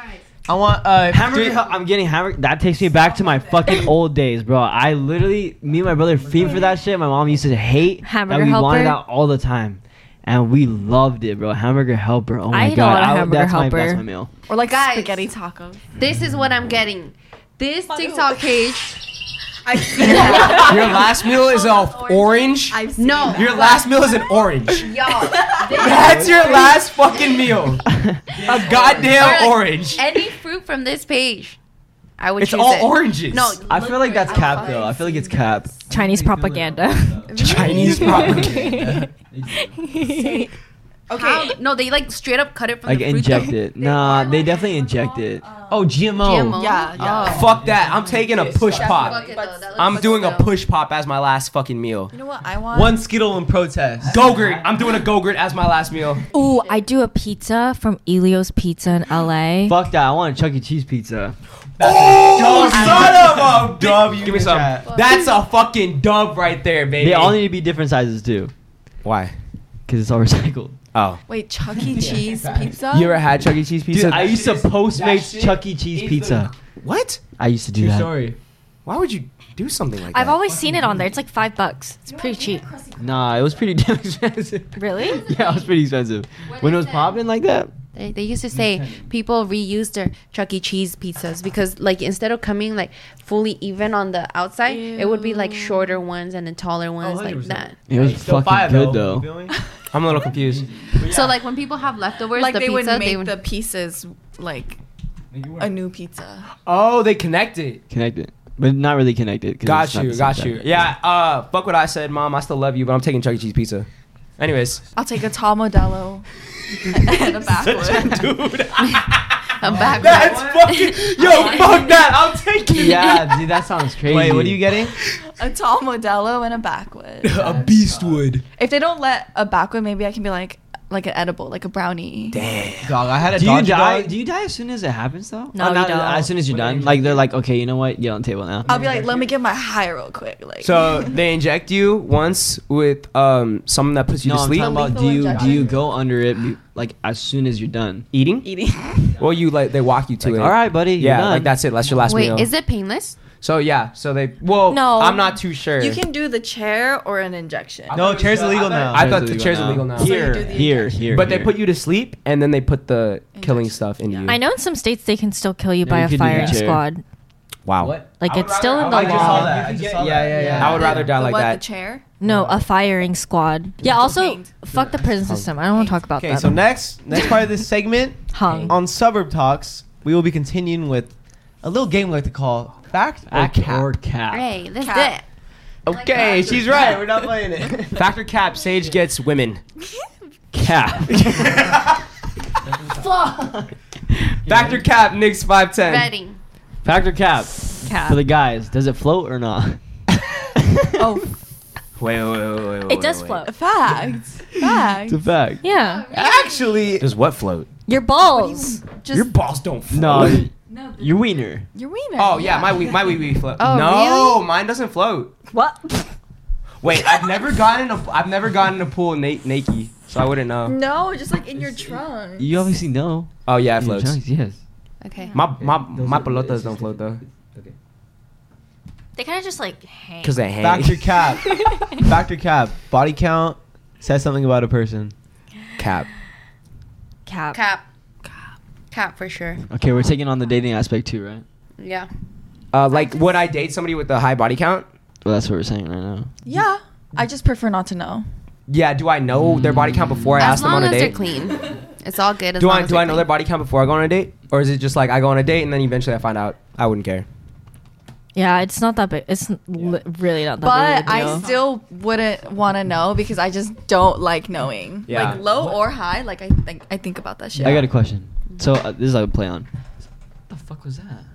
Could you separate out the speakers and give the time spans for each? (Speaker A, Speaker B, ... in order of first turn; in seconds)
Speaker A: 0.5-1.7, 28.7-29.1, 36.0-36.8, 37.6-39.1, 45.7-46.6, 52.7-54.2, 62.0-64.9, 77.7-78.3, 97.0-99.5, 119.8-120.5, 124.0-124.9, 127.6-128.2, 132.8-134.1, 138.8-139.2, 157.9-159.3, 168.7-171.0, 172.2-172.5, 176.2-183.9, 185.8-188.0, 206.1-207.1, 225.8-226.8, 230.6-235.1
Speaker B: 1.0-14.3, 27.9-29.0, 33.6-38.5, 39.3-39.8, 42.9-45.5, 47.2-48.2, 54.0-54.7, 59.6-61.4, 67.0-68.5, 69.9-70.8, 73.9-76.5, 77.4-78.3, 83.0-87.7, 97.8-99.3, 107.9-110.9, 122.7-124.7, 133.3-138.9, 144.2-148.1, 150.2-151.6, 158.9-161.6, 165.8-166.8, 169.1-171.0, 183.3-184.5, 190.5-191.7, 192.8-193.7, 194.3-194.8, 196.8-199.8, 200.6-201.1, 204.5-205.6, 209.9-211.7, 221.6-224.6, 239.7-241.4, 245.2-246.3, 249.5-250.4, 267.6-269.7, 270.5-271.2
Speaker C: 8.0-9.0, 12.5-14.0, 35.9-40.5, 56.3-59.8, 80.1-82.7, 84.8-85.2, 121.2-121.8, 135.5-136.3, 154.7-155.3, 164.3-167.0, 168.2-169.6, 172.2-176.6, 178.3-178.8, 197.8-198.2, 202.9-203.5, 205.6-206.0, 207.9-208.8, 215.5-216.0, 229.2-230.4, 237.2-237.6, 258.3-261.5
Speaker D: 14.5-15.8, 17.9-18.3, 19.6-24.1, 24.9-26.8, 33.7-35.5, 40.0-40.5, 41.1-41.6, 43.7-45.9, 46.5-47.5, 48.5-50.4, 52.1-53.1, 62.5-63.3, 71.3-73.2, 82.1-83.0, 94.6-96.0, 102.3-104.8, 105.5-106.5, 115.0-116.2, 116.9-118.2, 125.3-127.5, 128.6-132.5, 138.7-141.1, 144.5-145.9, 148.4-149.2, 155.8-158.1, 159.9-161.2, 163.3-164.4, 170.4-172.0, 173.8-174.5, 184.8-185.1, 186.2-186.7, 200.9-201.3, 203.4-205.3, 208.2-209.3, 210.7-213.2, 220.7-222.6, 246.4-248.2, 260.6-267.9
Speaker E: 14.6-15.3, 15.9-19.0, 19.9-21.0, 22.9-23.9, 24.7-26.8, 28.7-31.6, 32.2-34.9, 37.3-38.2, 41.1-44.0, 46.1-47.6, 48.7-50.5, 64.8-65.3, 87.9-97.8, 100.9-103.3, 119.6-121.5, 152.1-153.2, 184.3-185.2, 195.8-196.4, 205.7-206.9, 213.6-214.4, 225.0-225.4, 237.5-237.8, 238.9-239.6, 241.8-242.1, 250.4-253.3
Speaker F: 20.2-25.1, 25.6-30.1, 32.4-33.6, 37.4-38.8, 47.2-52.1, 54.1-56.2, 61.8-67.4, 69.0-69.3, 70.9-71.2, 71.9-77.2, 78.8-80.4, 99.9-101.1, 106.6-107.8, 109.6-114.8, 116.9-123.4, 127.2-128.4, 132.3-133.0, 136.4-137.2, 140.6-144.7, 145.3-145.6, 148.1-148.5, 149.2-152.5, 153.3-156.0, 157.9-164.4, 167.7-171.6, 185.9-187.0, 187.9-189.6, 191.3-192.0, 194.4-196.1, 202.0-203.4, 207.0-207.7, 209.1-210.4, 212.2-215.3, 216.8-220.8, 223.5-224.2, 225.3-227.2, 230.2-231.2, 235.8-236.1, 242.7-244.8, 248.7-251.2, 252.6-257.2, 265.1-265.4